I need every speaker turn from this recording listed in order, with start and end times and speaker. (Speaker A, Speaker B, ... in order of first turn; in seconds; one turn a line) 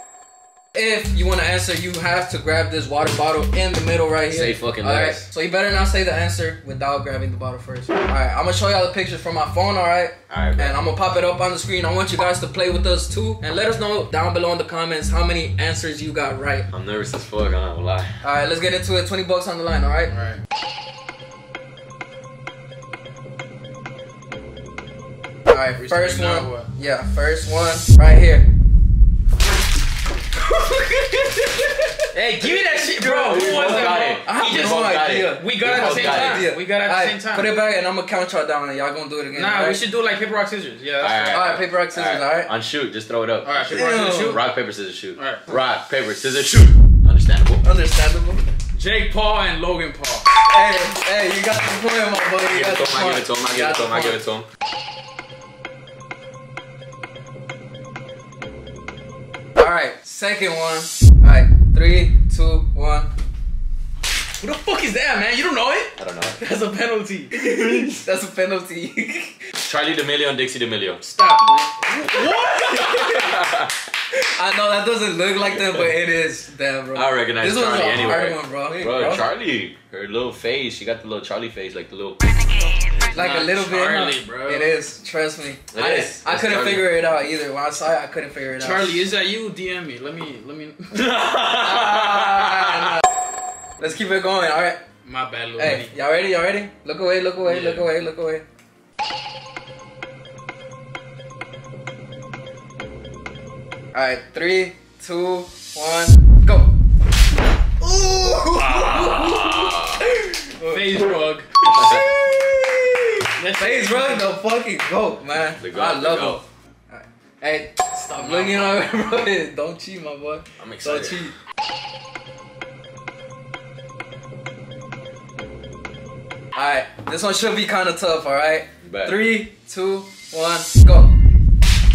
Speaker A: 0.7-16.7
Speaker B: 4.3-5.3
Speaker B: 10.3-10.8
Speaker B: 16.7-18.2
Speaker A: 18.2-20.1
Speaker C: 20.1-20.4
Speaker A: 25.5-28.5
Speaker C: 25.8-26.7
Speaker A: 30.4-39.8
Speaker C: 32.1-37.6
Speaker B: 33.1-36.5
Speaker C: 39.3-41.5
Speaker B: 41.0-47.6
Speaker A: 41.3-42.5
Speaker C: 43.4-44.5
Speaker A: 43.7-44.4
Speaker C: 45.2-45.4
Speaker A: 47.6-48.5
Speaker C: 48.7-50.3
Speaker A: 50.4-54.2
Speaker B: 52.4-54.5
Speaker A: 59.6-63.1
Speaker C: 64.4-67.8
Speaker B: 66.0-66.4
Speaker A: 67.3-69.4
Speaker B: 69.6-71.0
Speaker C: 71.0-73.0
Speaker B: 72.7-73.7
Speaker A: 72.7-73.3
Speaker A: 74.1-79.3
Speaker B: 75.5-75.8
Speaker B: 76.9-82.2
Speaker C: 83.0-84.8
Speaker A: 83.1-88.9
Speaker B: 85.7-86.9
Speaker C: 88.6-91.1
Speaker B: 90.9-92.9
Speaker A: 91.6-93.0
Speaker A: 93.8-94.8
Speaker C: 95.0-95.9
Speaker A: 95.6-98.5
Speaker C: 97.4-97.9
Speaker A: 103.9-106.8
Speaker A: 107.8-111.0
Speaker B: 108.6-110.1
Speaker C: 110.7-111.5
Speaker A: 111.7-121.3
Speaker B: 111.8-112.1
Speaker C: 113.4-114.3
Speaker B: 115.6-116.4
Speaker C: 118.2-118.9
Speaker B: 120.6-121.3
Speaker A: 126.5-131.2
Speaker B: 128.8-129.2